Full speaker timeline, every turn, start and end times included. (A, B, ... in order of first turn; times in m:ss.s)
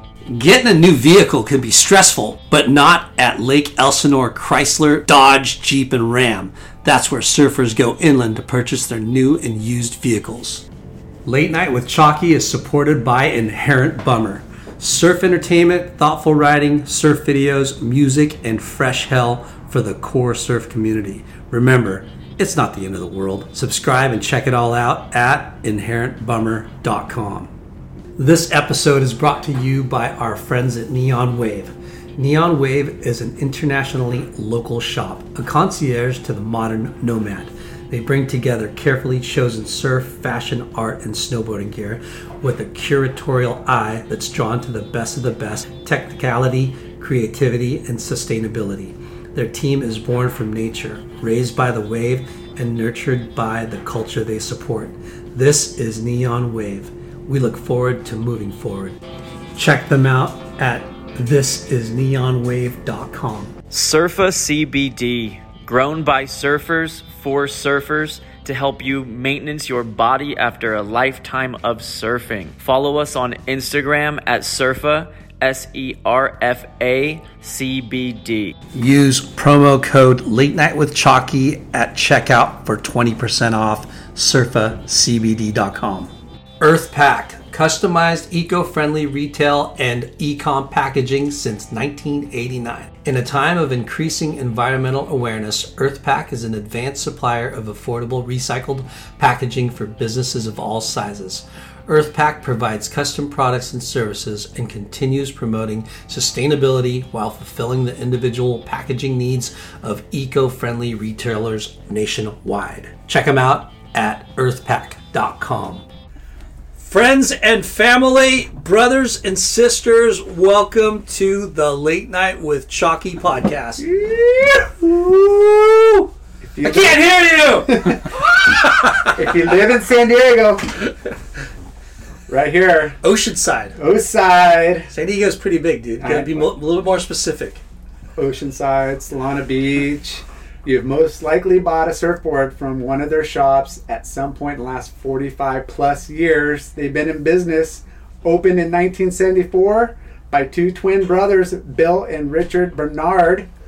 0:00.3-0:10.6 A
0:11.3-0:27.5 A
0:28.2-0:59.0 A
0:59.6-1:03.6 A
1:03.7-1:18.5 B
1:18.7-1:55.8 A
1:56.8-2:03.9 A
2:03.8-2:04.8 C
2:04.8-2:09.1 A
2:06.4-2:08.2 C
2:08.9-2:10.9 C
2:12.3-2:13.0 C
2:13.0-2:13.8 A
2:13.8-2:14.9 C
2:14.9-2:17.6 A
2:16.0-2:16.5 C
2:18.2-2:33.5 C